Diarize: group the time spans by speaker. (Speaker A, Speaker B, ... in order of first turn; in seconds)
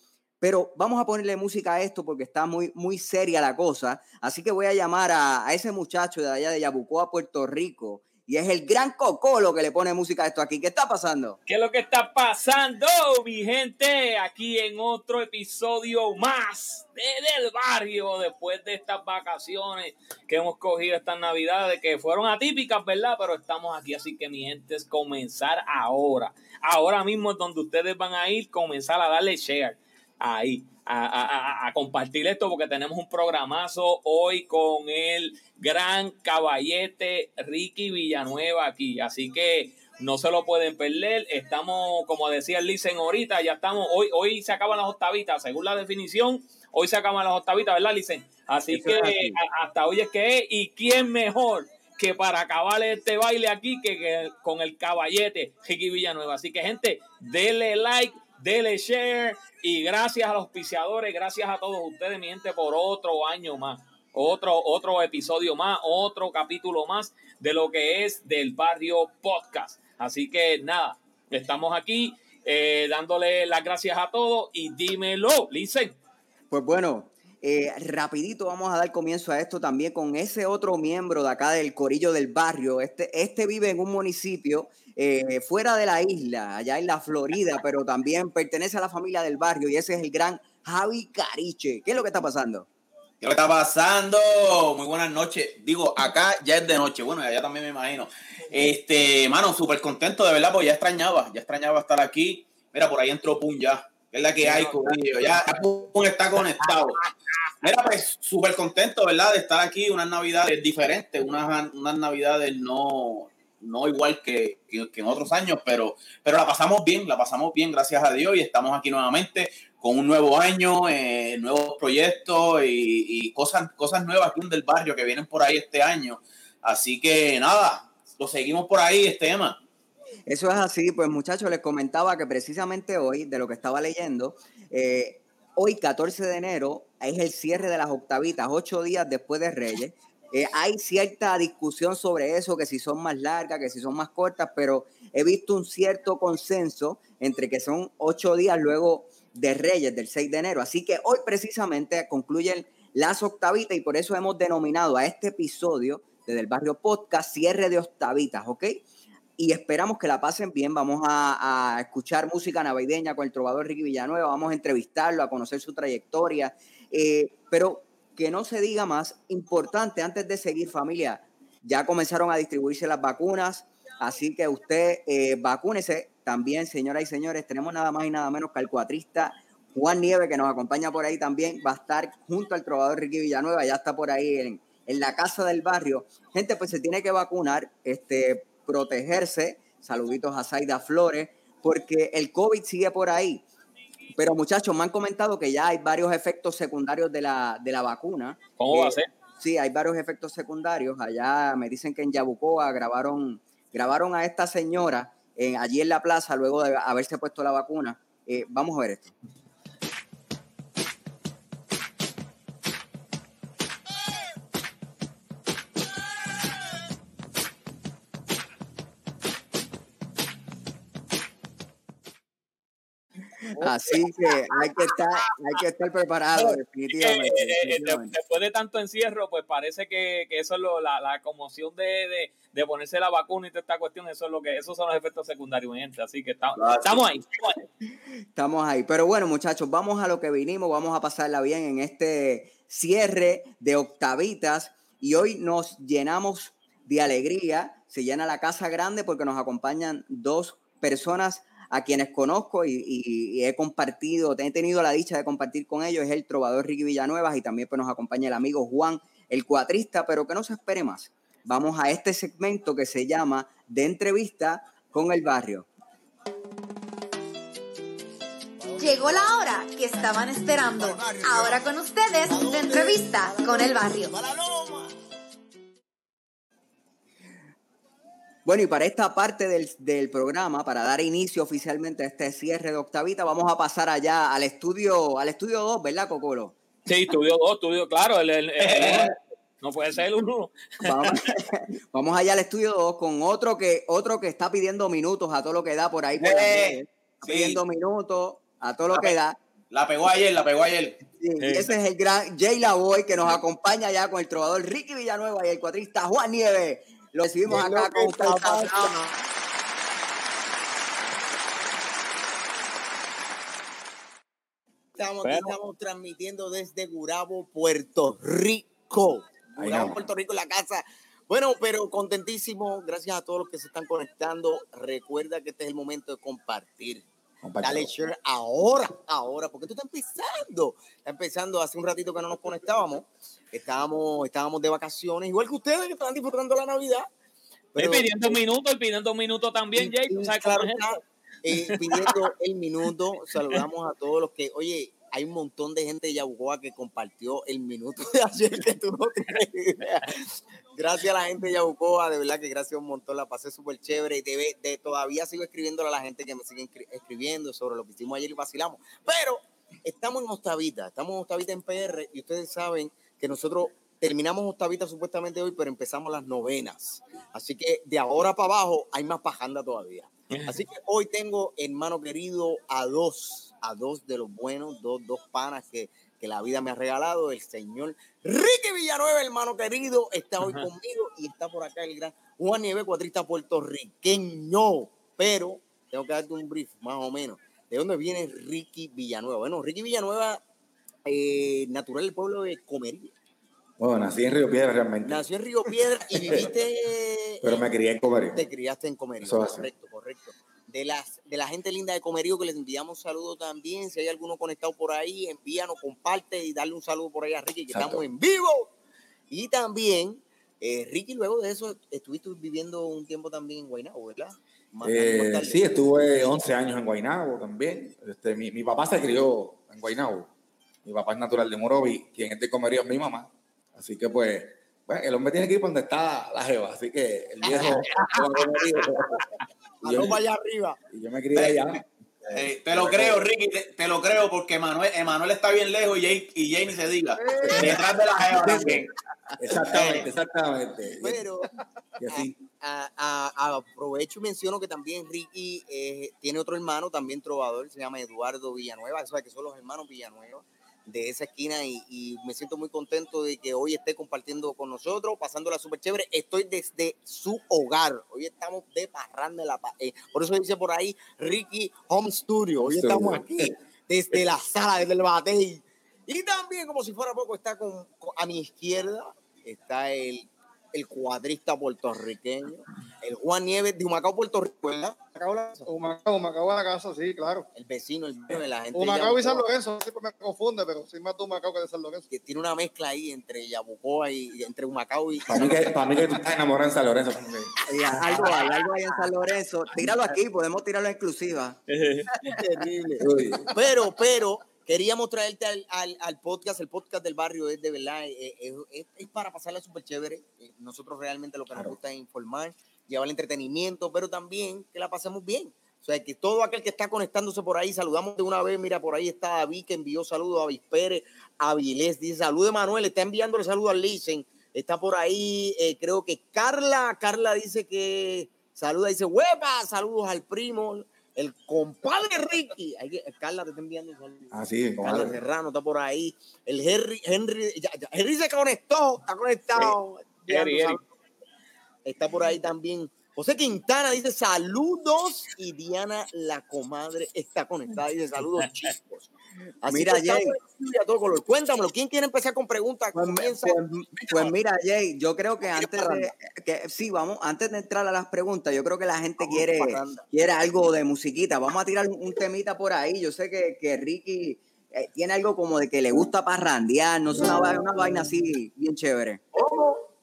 Speaker A: 0.4-11.4, 48.7-49.4, 76.5-92.7, 130.3-158.8, 159.4-193.4, 194.1-209.1, 223.6-228.1, 238.3-265.7, 278.4-286.6, 290.8-299.4, 301.2-308.9, 487.7-491.6, 539.7-540.4, 542.9-559.2
Speaker B: 11.5-76.0, 198.6-199.1, 223.6-224.8, 226.4-237.7, 286.9-291.3, 301.4-301.7, 315.2-315.6, 337.8-340.9, 341.7-342.2, 370.3-370.6, 380.4-380.7, 491.7-492.2, 530.3-530.8
Speaker C: 93.2-107.0, 107.6-129.6, 236.6-237.0, 288.6-289.2, 296.2-297.6, 299.7-301.0, 431.3-431.7, 432.3-438.9
Speaker D: 268.6-269.0, 270.8-271.6, 272.2-274.9, 307.4-309.1, 314.9-327.1, 327.6-337.1, 337.8-338.4, 339.8-390.4, 391.1-393.1, 395.0-397.6, 398.3-408.7, 409.3-415.8, 427.5-427.9, 429.8-430.8, 439.6-440.1, 441.0-441.5, 442.1-475.7, 477.6-479.4, 482.1-485.7, 492.3-530.8, 531.9-539.1, 539.6-544.3, 545.4-546.1, 549.2-550.1, 559.4-559.8
Speaker E: 268.8-274.1
Speaker F: 319.6-320.1, 327.4-327.9, 393.8-395.2, 396.1-396.5, 397.4-398.4, 399.2-399.7, 407.7-408.0, 414.8-420.3, 420.8-429.3, 429.8-430.2, 430.9-433.2, 438.3-441.2, 442.0-442.4, 462.6-463.5, 485.3-487.5, 493.0-493.5, 524.3-525.2
Speaker G: 437.2-437.9, 475.6-477.5, 478.7-482.1